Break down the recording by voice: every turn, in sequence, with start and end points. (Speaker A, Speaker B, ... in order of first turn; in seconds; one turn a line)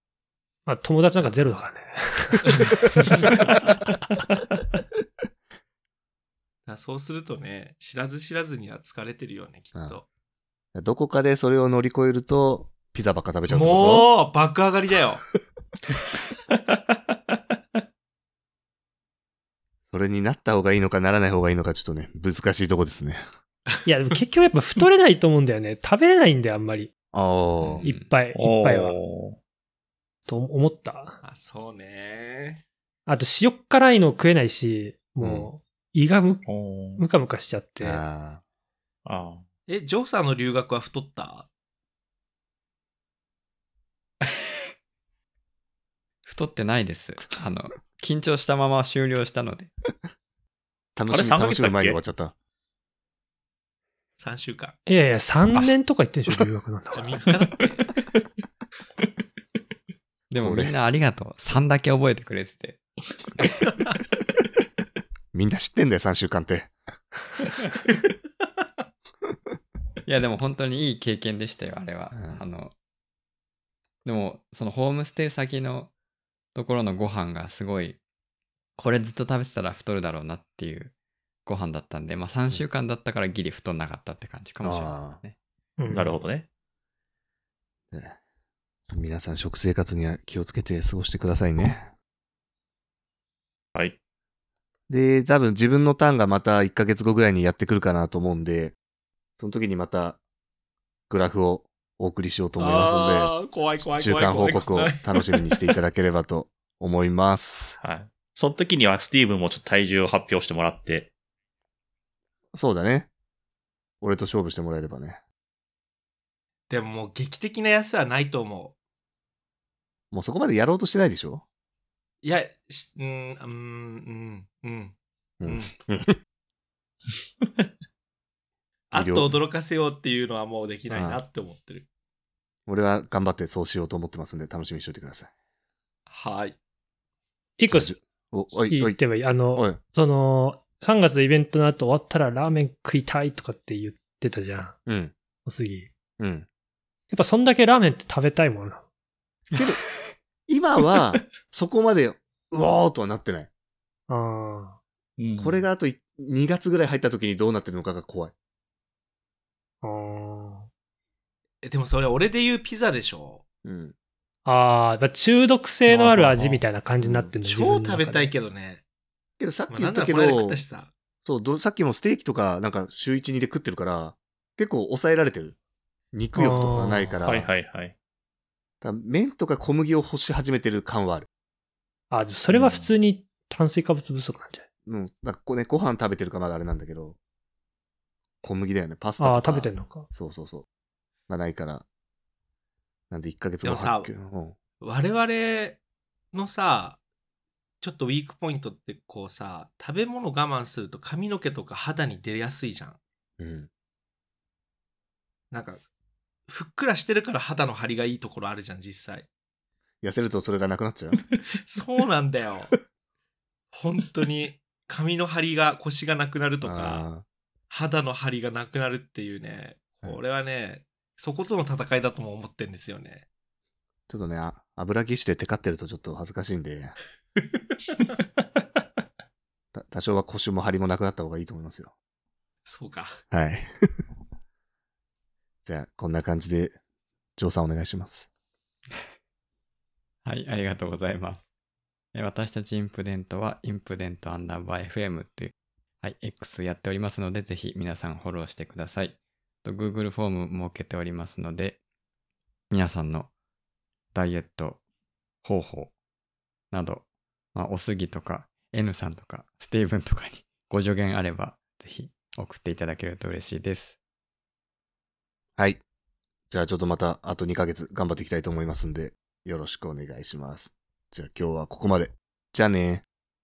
Speaker A: 0.7-3.2
Speaker B: 6.7-10.1
Speaker C: 10.8-14.1
Speaker B: 13.5-15.2
Speaker C: 19.9-23.2
Speaker B: 23.7-24.2
Speaker A: 23.9-26.9
Speaker C: 27.1-27.9
Speaker D: 27.6-28.1
Speaker A: 27.8-29.0
Speaker E: 28.4-29.4
Speaker A: 30.3-31.2
Speaker B: 31.2-32.6
Speaker A: 33.1-36.5
Speaker C: 35.2-35.5
Speaker E: 36.5-37.0
Speaker A: 37.0-38.0
Speaker C: 37.8-38.4
Speaker E: 39.1-39.4
Speaker B: 39.7-41.5
Speaker D: 46.2-49.7
Speaker C: 51.0-52.3
Speaker E: 51.1-52.0
Speaker B: 54.2-54.8
Speaker A: 54.9-57.2
Speaker B: 56.9-57.9
Speaker D: 60.3-62.8
Speaker C: 60.4-60.8
Speaker C: 65.3-66.7
Speaker D: 70.1-72.7
Speaker C: 72.1-72.4
Speaker D: 74.0-75.9
Speaker D: 76.5-78.0
Speaker D: 78.8-80.9
Speaker D: 81.5-85.4
Speaker C: 84.6-85.2
Speaker A: 85.8-86.2
Speaker E: 85.9-86.5
Speaker C: 87.9-88.2
Speaker C: 88.9-91.9
Speaker C: 94.9-98.8
Speaker C: 99.4-100.2
Speaker C: 101.1-107.8
Speaker B: 102.6-105.7
Speaker E: 107.8-111.1
Speaker C: 112.5-113.1
Speaker C: 114.0-115.2
Speaker B: 116.7-118.7
Speaker C: 120.1-121.4
Speaker B: 122.2-125.7
Speaker C: 125.4-126.2
Speaker B: 128.9-131.9
Speaker C: 128.9-129.4
Speaker C: 130.9-131.2
Speaker C: 132.7-135.3
Speaker B: 136.1-136.6
Speaker A: 137.6-138.0
Speaker C: 137.7-139.0
Speaker A: 138.5-144.8
Speaker C: 139.5-139.8
Speaker C: 144.9-145.1
Speaker A: 145.4-145.9
Speaker C: 146.2-146.5
Speaker A: 147.1-148.8
Speaker C: 149.5-149.8
Speaker C: 150.5-153.5
Speaker A: 154.1-154.8
Speaker E: 155.2-155.6
Speaker C: 155.4-158.3
Speaker A: 159.8-160.7
Speaker B: 161.6-163.4
Speaker C: 163.7-163.9
Speaker A: 164.5-168.3
Speaker B: 165.9-166.6
Speaker C: 167.0-167.3
Speaker B: 167.4-168.8
Speaker C: 169.4-170.6
Speaker B: 169.7-170.9
Speaker C: 171.2-175.6
Speaker C: 176.1-177.5
Speaker A: 176.3-177.2
Speaker E: 177.2-177.9
Speaker C: 178.8-181.3
Speaker A: 182.1-184.7
Speaker E: 182.5-182.9
Speaker C: 184.9-187.2
Speaker C: 188.4-190.7
Speaker A: 189.2-190.1
Speaker C: 191.3-191.8
Speaker C: 193.1-194.6
Speaker B: 193.6-194.1
Speaker B: 194.8-195.8
Speaker B: 196.3-197.0
Speaker B: 197.8-203.0
Speaker C: 203.4-203.7
Speaker B: 205.5-205.8
Speaker B: 206.5-209.3
Speaker C: 210.0-211.2
Speaker B: 211.5-212.7
Speaker B: 213.7-217.1
Speaker C: 216.6-217.2
Speaker B: 217.7-223.2
Speaker C: 224.1-226.9
Speaker C: 229.7-231.9
Speaker B: 232.7-233.2
Speaker C: 233.3-233.7
Speaker C: 235.7-236.8
Speaker C: 237.4-238.3
Speaker D: 240.2-241.4
Speaker D: 242.1-251.8
Speaker D: 252.7-253.3
Speaker D: 254.1-254.8
Speaker D: 255.4-255.9
Speaker D: 256.7-264.0
Speaker C: 266.5-273.0